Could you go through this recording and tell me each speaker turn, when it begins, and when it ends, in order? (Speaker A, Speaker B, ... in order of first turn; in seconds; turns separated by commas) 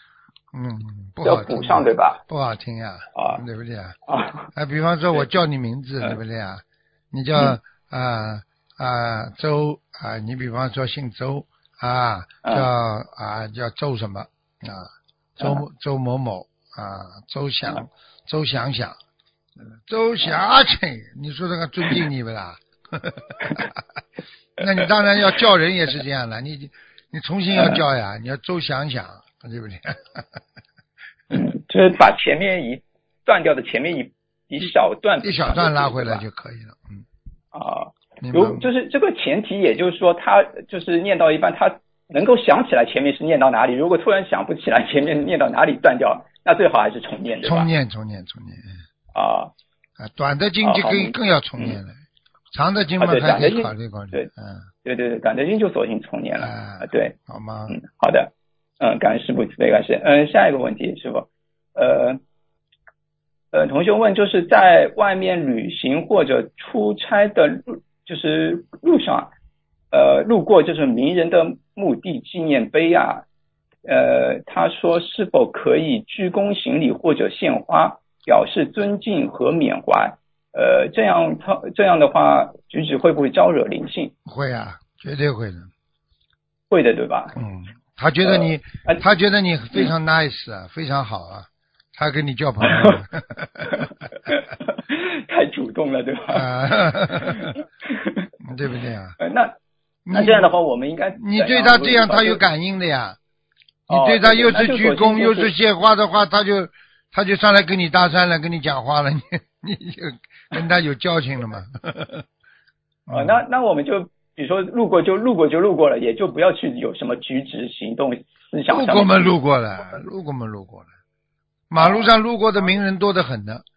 Speaker A: 0.5-4.0, Speaker B: 1.2-2.2, Speaker B: 3.1-3.4, Speaker B: 4.1-4.5, Speaker A: 4.5-18.9, Speaker A: 19.6-23.6, Speaker A: 24.6-30.2, Speaker B: 24.6-25.3, Speaker B: 27.5-27.8, Speaker B: 31.3-36.2, Speaker A: 35.2-37.0, Speaker B: 37.5-47.7, Speaker A: 38.2-38.7, Speaker A: 47.4-48.8, Speaker B: 49.1-49.5, Speaker A: 50.0-51.9, Speaker B: 50.6-51.8, Speaker A: 52.5-54.6, Speaker B: 53.0-54.3, Speaker B: 54.8-57.1, Speaker A: 56.4-57.8, Speaker B: 57.7-62.2, Speaker B: 63.5-69.3, Speaker B: 69.9-73.2, Speaker B: 73.8-84.1, Speaker A: 84.2-85.7, Speaker B: 86.7-87.4, Speaker A: 87.3-93.9, Speaker B: 88.2-89.0, Speaker B: 92.6-93.0, Speaker B: 93.7-96.5, Speaker A: 96.3-97.5, Speaker B: 97.1-98.3, Speaker A: 98.4-99.2, Speaker B: 99.2-99.5, Speaker A: 100.1-100.5, Speaker B: 100.1-102.4, Speaker A: 101.2-103.2, Speaker B: 103.9-105.5, Speaker A: 103.9-112.2, Speaker A: 113.1-113.4, Speaker B: 113.1-119.3, Speaker A: 118.7-120.9, Speaker A: 121.7-123.6, Speaker B: 121.8-122.1